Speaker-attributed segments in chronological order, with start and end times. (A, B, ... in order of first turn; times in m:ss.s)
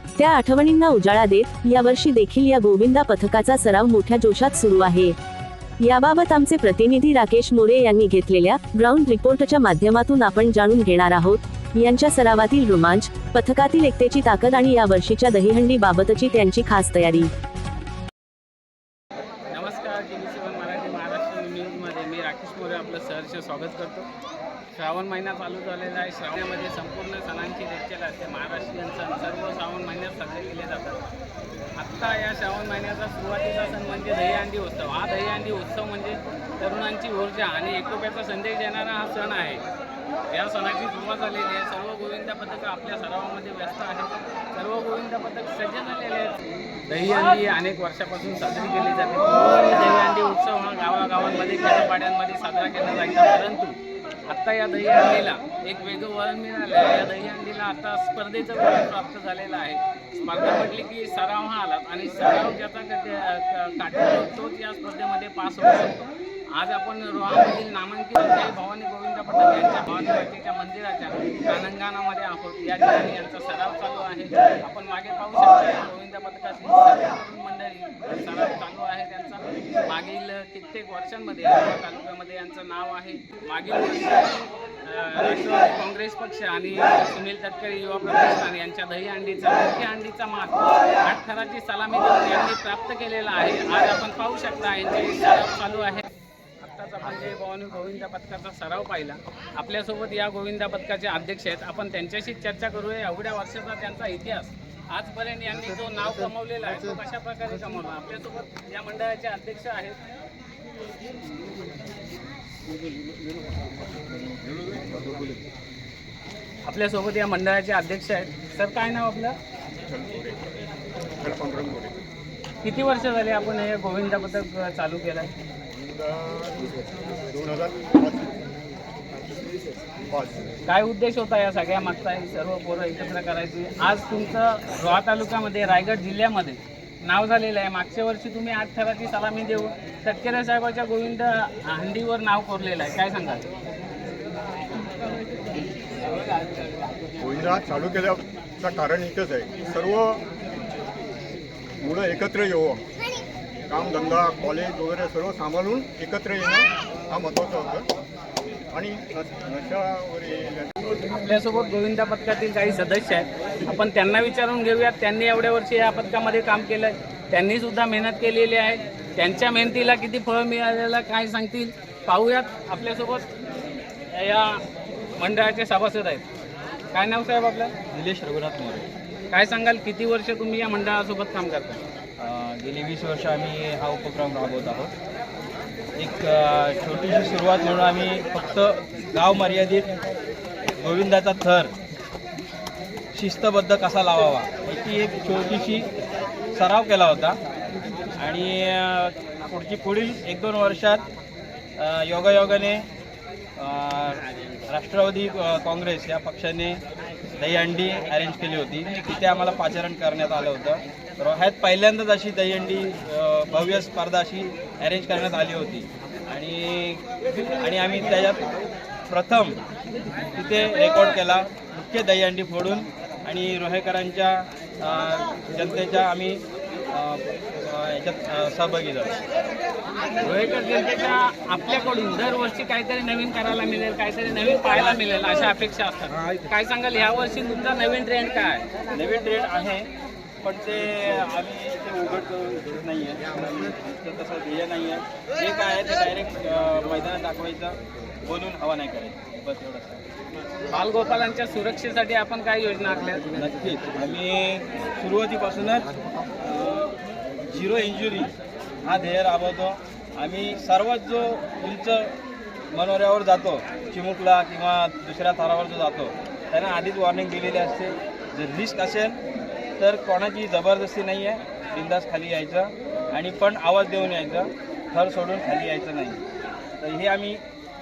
0:00.2-0:05.2 A
0:05.8-0:17.3 A
0:19.5-0:24.1 B
0:24.7-0:31.0 B
0:31.8-0:39.6 B
0:40.3-0:46.4 B
0:46.9-0:53.8 B
0:54.3-1:36.0 B
1:36.6-1:50.0 B
1:56.6-1:59.4 B
1:59.8-2:00.4 C
2:01.2-2:02.0 C
2:02.6-2:05.3 B
2:05.7-2:08.4 C
2:10.1-2:10.5 C
2:10.7-2:23.5 B
2:27.2-2:30.2 C
2:31.8-2:32.8 C
2:33.7-2:37.9 C
2:38.7-2:40.7 C
2:41.0-2:53.3 B
2:54.1-2:54.6 B
2:55.2-2:56.2 B
2:56.9-2:57.7 B
2:57.9-2:58.9 D
2:59.3-3:01.8 B
3:02.2-3:04.9 D
3:06.0-3:09.9 D
3:10.8-3:11.7 D
3:13.1-3:15.9 D
3:16.5-3:17.4 D
3:18.2-3:21.0 D
3:21.8-3:22.9 D
3:23.6-3:26.8 D
3:27.4-3:37.0 D
3:37.6-3:38.4 D
3:39.1-3:39.6 D
3:40.3-3:49.2 D
3:50.2-3:58.6 B
3:58.9-3:59.9 D
4:00.4-4:10.0 D
4:10.7-4:13.3 B
4:13.3-4:16.9 D
4:17.5-4:18.3 D
4:18.8-4:22.1 D
4:22.7-4:29.2 D
4:29.8-4:36.2 D
4:36.8-4:37.4 D